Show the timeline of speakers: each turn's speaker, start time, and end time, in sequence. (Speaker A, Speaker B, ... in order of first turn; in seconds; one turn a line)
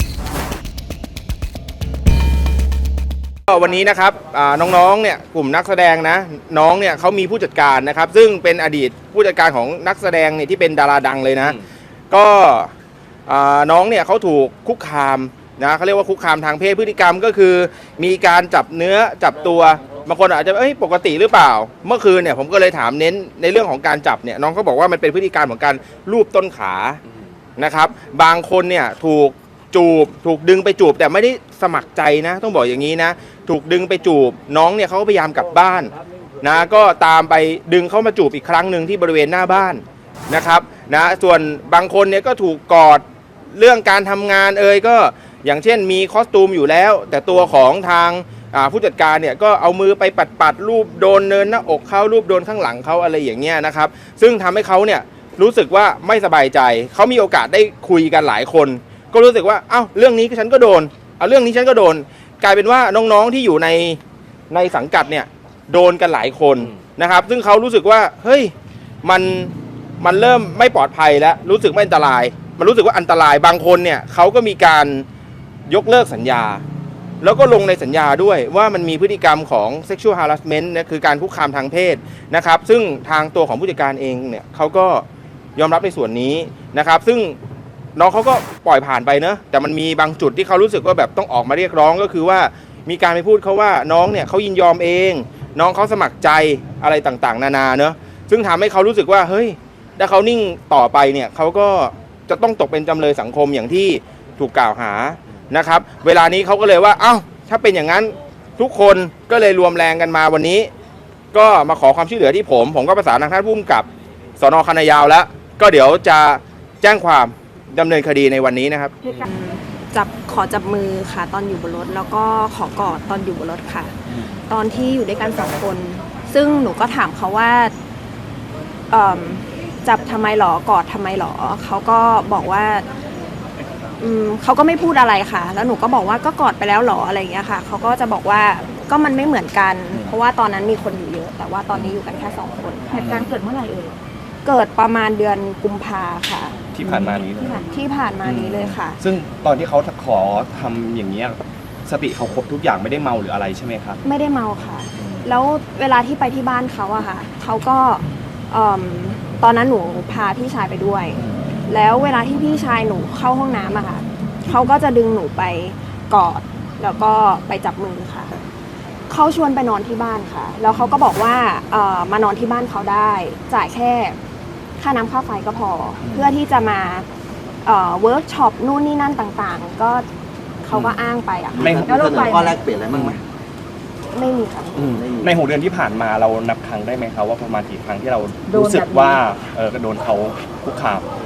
Speaker A: 3.5-11.6
Speaker A: 12.1-12.7
Speaker A: 13.3-27.0
Speaker A: 27.6-35.9
Speaker A: 36.4-43.0
Speaker A: 43.5-64.0
Speaker A: 64.5-75.0
Speaker A: 75.7-76.6
Speaker A: 77.2-85.0
Speaker A: 85.5-87.4
Speaker A: 88.0-110.7
Speaker A: 111.3-113.9
Speaker A: 114.4-118.9
Speaker B: 119.0-124.0
Speaker C: 124.1-124.4
Speaker B: 124.5-127.7
Speaker B: 128.9-132.9
Speaker B: 134.0-143.1
Speaker C: 141.7-142.0
Speaker D: 142.9-143.9
Speaker C: 142.9-143.3
Speaker B: 144.4-146.6
Speaker C: 146.7-147.6
Speaker D: 146.8-147.8
Speaker B: 147.7-149.0
Speaker C: 148.2-154.0
Speaker B: 154.0-168.3
Speaker C: 155.0-155.2
Speaker C: 161.1-161.4
Speaker B: 169.1-174.2
Speaker C: 170.7-170.9
Speaker B: 174.8-177.1
Speaker C: 176.0-176.3
Speaker B: 177.6-180.1
Speaker B: 180.6-181.8
Speaker C: 180.7-181.0
Speaker E: 181.5-183.2
Speaker C: 181.6-182.0
Speaker D: 181.8-182.6
Speaker C: 182.9-183.2
Speaker B: 184.1-184.9
Speaker C: 184.7-191.1
Speaker E: 184.9-185.3
Speaker D: 188.5-189.2